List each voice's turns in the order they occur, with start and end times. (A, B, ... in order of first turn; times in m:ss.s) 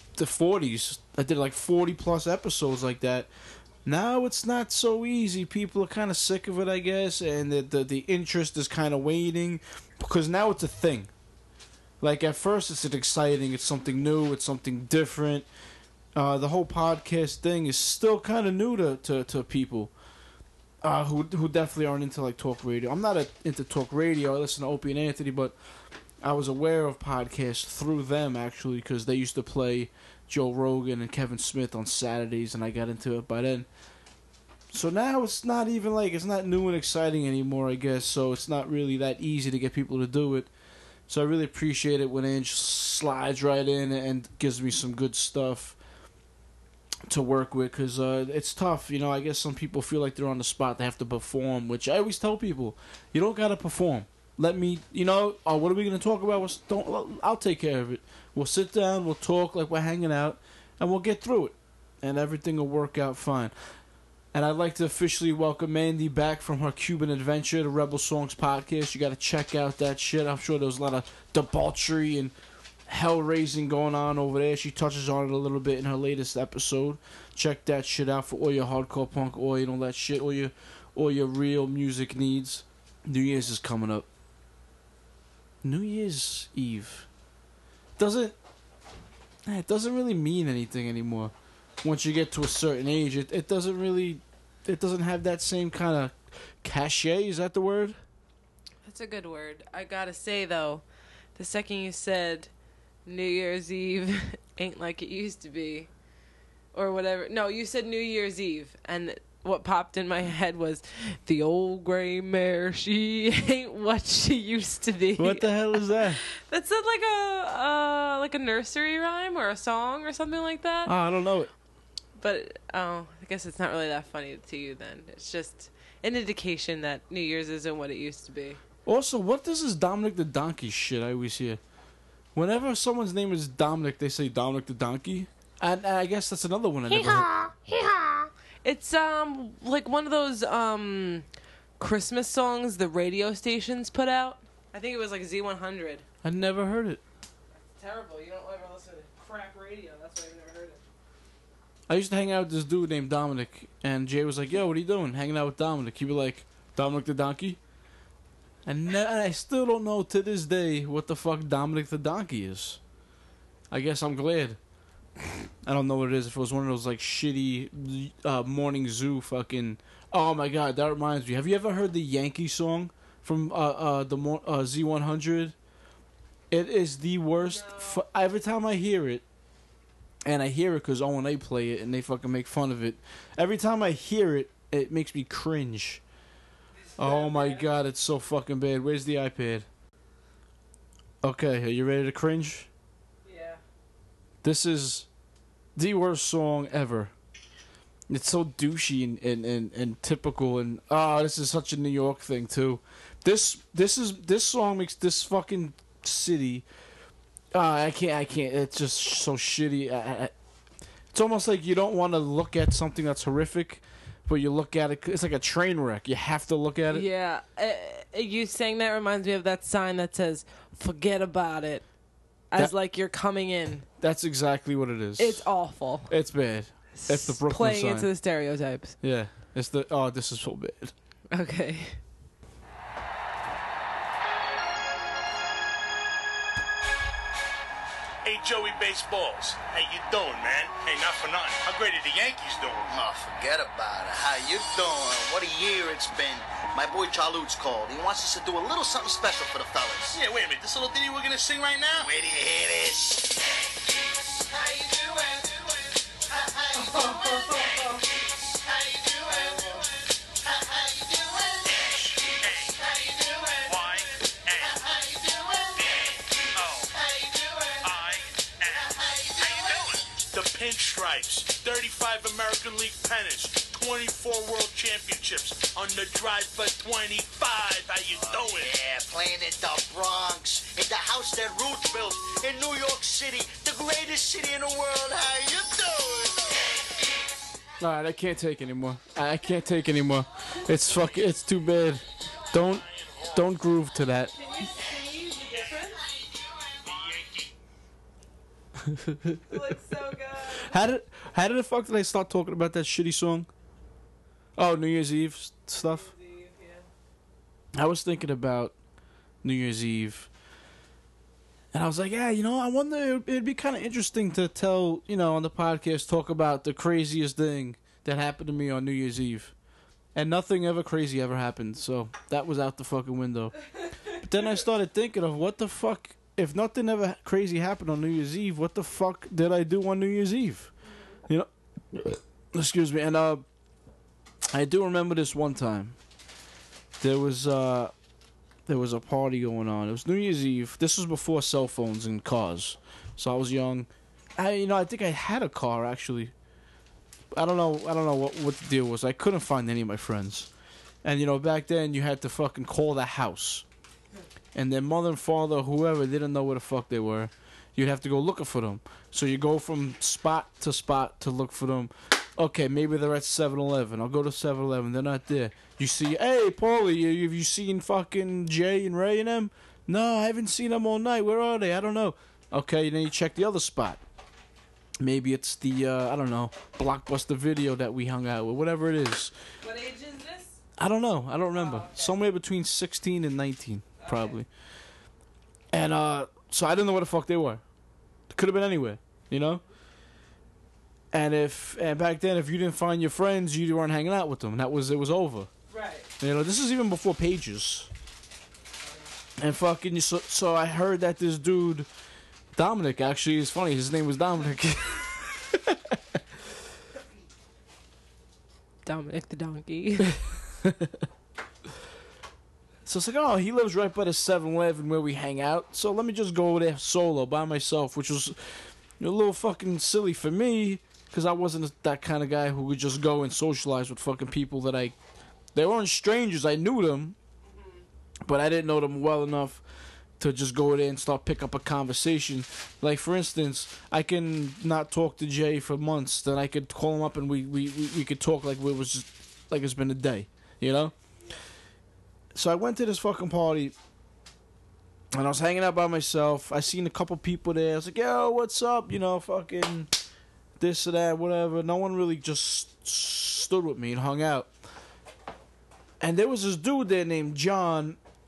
0:00.2-0:03.3 A
0:03.8-0:11.1 A
0:12.0-0:15.5 A
0:16.2-0:19.9 A
0:20.8-0:25.6 A
0:26.2-0:33.7 A
0:34.7-0:40.5 A
0:41.1-0:45.8 A
0:47.1-1:03.8 A
1:04.3-1:12.3 A
1:12.9-1:24.1 A
1:25.6-1:27.1 A
1:28.0-1:28.3 A
1:29.5-1:38.0 A
1:38.8-1:40.8 B
1:41.4-1:42.5 B
1:43.1-1:45.9 B
1:46.7-2:00.9 B
1:55.2-1:56.2 A
2:00.8-2:01.5 A
2:02.2-2:08.6 B
2:08.8-2:11.6 A
2:12.4-2:17.3 A
2:16.9-2:21.2 B
2:21.8-2:26.0 B
2:26.2-2:27.0 A
2:27.8-2:30.8 B
2:31.9-2:37.6 A
2:38.6-2:42.8 A
2:43.7-2:44.6 A
2:45.6-2:55.5 A
2:56.5-2:59.2 A
2:57.4-2:58.0 B
3:00.2-3:06.0 A
3:06.8-3:07.7 B
3:07.0-3:09.7 A
3:11.2-3:12.7 A
3:13.2-3:13.6 B
3:14.4-3:15.1 A
3:15.8-3:17.1 A
3:18.1-3:26.7 A
3:27.5-3:30.3 A
3:31.1-3:37.1 A
3:36.9-3:41.8 B
3:42.5-3:43.9 B
3:44.0-3:48.1 A
3:45.2-3:46.1 B
3:47.0-3:49.0 B
3:49.0-3:50.9 A
3:51.3-3:52.0 B
3:58.2-4:02.9 C
4:02.9-4:10.2 D
4:10.1-4:12.1 C
4:11.9-4:13.5 D
4:14.6-4:15.7 D
4:16.3-4:17.8 D
4:16.8-4:18.0 B
4:18.7-4:19.8 D
4:19.5-4:19.8 B
4:20.6-4:21.8 D
4:21.8-4:22.8 C
4:23.0-4:23.6 D
4:23.7-4:24.8 C
4:25.1-4:25.7 D
4:25.7-4:27.0 C
4:27.7-4:38.8 C
4:38.2-4:46.7 D
4:47.8-4:54.3 A
4:52.6-4:53.5 C
4:54.4-4:56.0 B
4:56.9-4:57.4 C
4:58.9-4:59.4 A
4:59.5-5:00.8 B
5:00.6-5:03.5 A
5:04.6-5:06.1 A
5:05.7-5:06.9 B
5:07.7-5:08.7 A
5:09.4-5:10.3 A
5:11.7-5:19.5 A
5:20.1-5:23.6 A
5:24.1-5:30.7 A
5:30.8-5:31.2 B
5:31.3-5:33.4 A
5:34.5-5:36.0 A
5:37.0-5:37.9 A
5:38.7-5:46.3 A
5:47.3-5:50.5 A
5:51.0-5:53.6 A
5:54.5-6:14.0 A
6:15.0-6:19.3 A
6:19.6-6:20.6 B
6:20.8-6:24.5 A
6:21.5-6:22.2 B
6:24.0-6:24.4 B
6:25.7-6:27.6 A
6:28.3-6:29.6 A
6:31.1-6:35.5 A
6:35.7-6:36.1 B
6:36.2-6:37.9 A
6:39.4-6:41.9 A
6:42.5-6:46.2 A
6:48.8-6:50.2 B
6:50.6-6:51.0 A
6:52.8-7:05.0 A
7:05.5-7:07.2 A
7:07.5-7:07.8 B
7:08.2-7:09.6 A
7:10.2-7:20.9 A
7:22.4-7:23.7 A
7:25.1-7:29.9 A
7:30.6-7:34.5 A
7:36.0-7:38.0 A